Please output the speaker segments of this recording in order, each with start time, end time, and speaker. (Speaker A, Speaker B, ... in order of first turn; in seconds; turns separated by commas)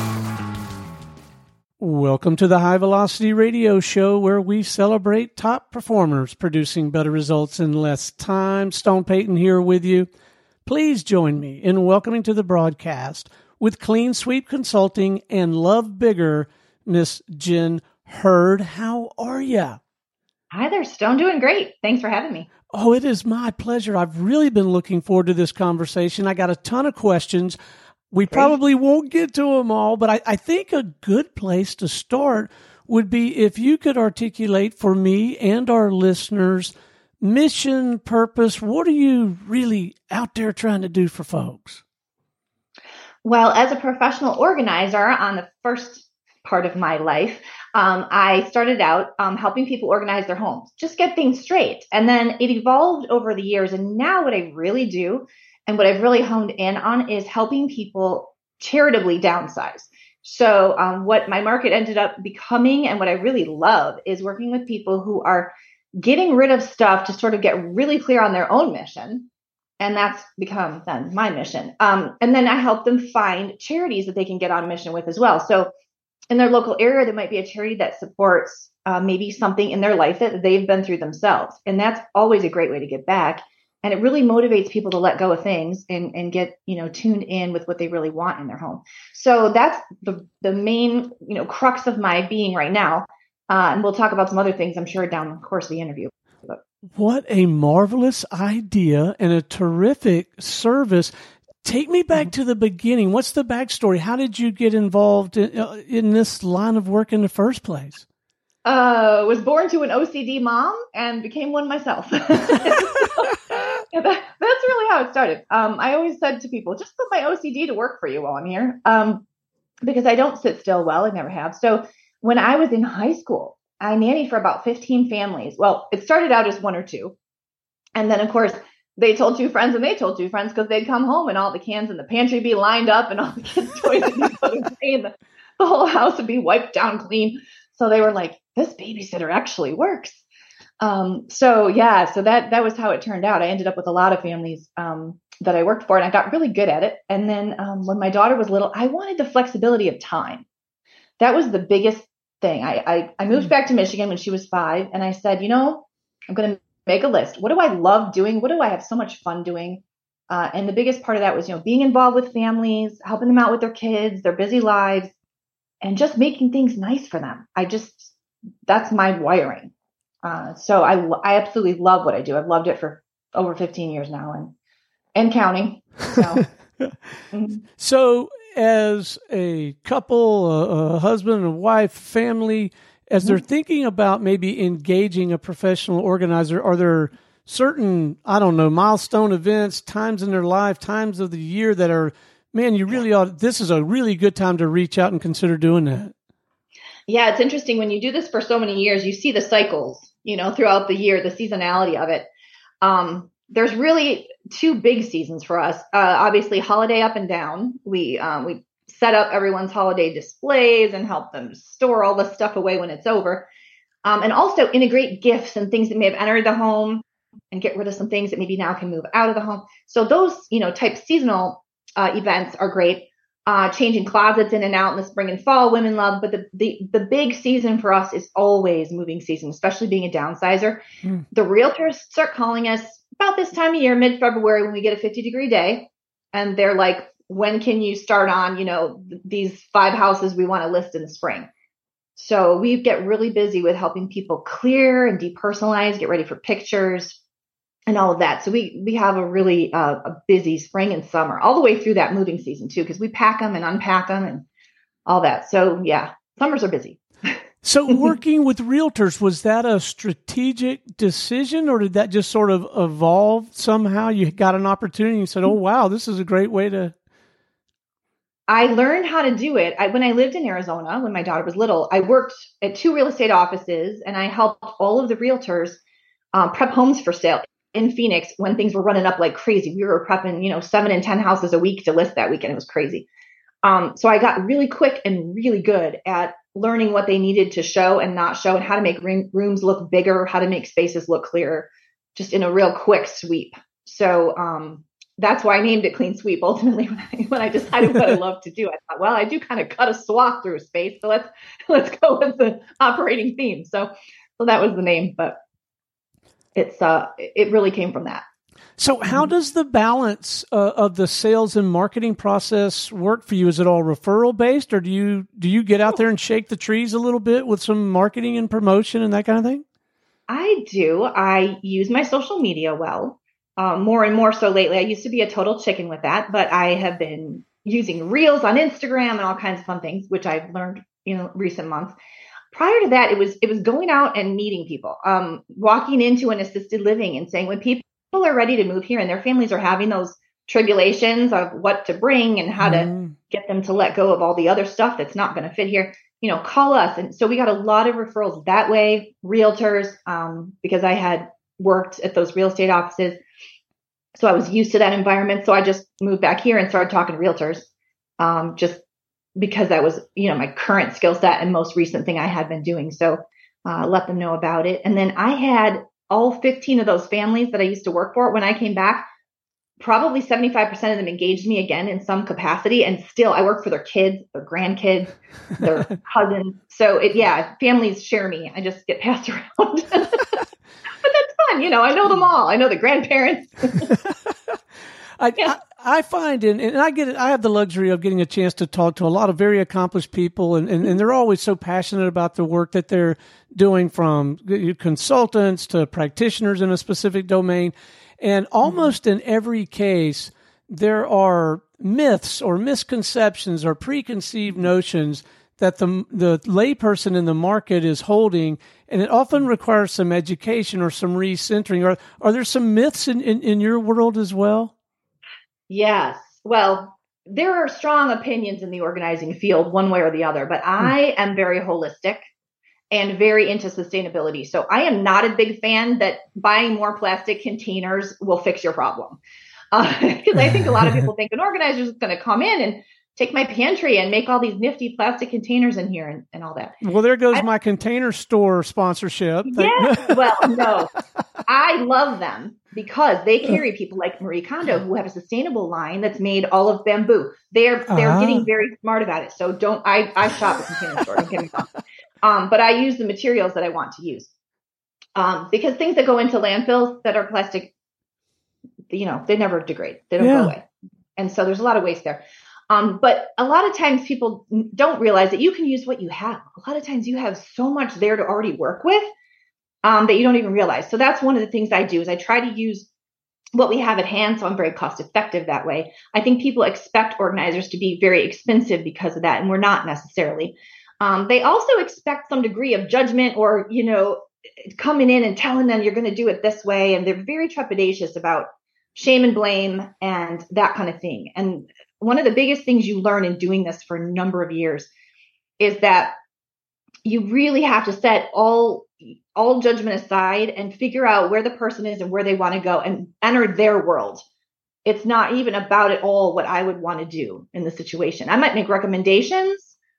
Speaker A: 1.8-10.1, Speaker A: 10.7-19.8, Speaker B: 20.5-22.5, Speaker A: 22.7-27.6, Speaker A: 28.1-41.8, Speaker B: 28.3-28.5, Speaker B: 43.2-69.3, Speaker B: 69.8-75.7, Speaker B: 76.3-96.6, Speaker A: 96.9-101.1, Speaker A: 101.6-108.0, Speaker B: 108.6-119.2, Speaker B: 119.8-127.2, Speaker B: 128.0-140.2, Speaker B: 140.8-150.4, Speaker B: 151.2-165.1, Speaker B: 165.8-168.1, Speaker B: 168.7-169.7, Speaker B: 170.2-174.5, Speaker B: 175.1-176.4, Speaker B: 177.3-177.6, Speaker A: 177.8-196.1, Speaker B: 197.1-202.2, Speaker B: 202.8-213.5, Speaker B: 214.0-241.5, Speaker B: 242.2-247.2, Speaker B: 247.9-254.4, Speaker B: 255.1-257.0, Speaker A: 257.6-266.9, Speaker B: 268.5-275.8, Speaker B: 276.3-283.1, Speaker B: 283.6-305.4, Speaker B: 306.6-308.2, Speaker A: 308.8-319.6, Speaker B: 320.3-331.9, Speaker B: 332.5-353.2, Speaker A: 342.6-343.1, Speaker B: 354.1-358.8, Speaker B: 359.4-369.1, Speaker B: 369.8-380.4, Speaker B: 381.0-383.9, Speaker A: 385.2-414.7, Speaker B: 415.7-422.2, Speaker B: 422.9-429.2, Speaker B: 429.7-436.8, Speaker A: 436.8-440.7, Speaker B: 439.4-440.9, Speaker B: 441.4-454.3, Speaker A: 447.9-448.5, Speaker B: 455.1-457.7, Speaker B: 458.9-460.6, Speaker A: 460.2-460.5, Speaker B: 461.2-469.1, Speaker B: 469.8-472.9, Speaker B: 473.5-494.9, Speaker B: 495.6-496.1, Speaker B: 497.0-504.2, Speaker B: 504.8-509.8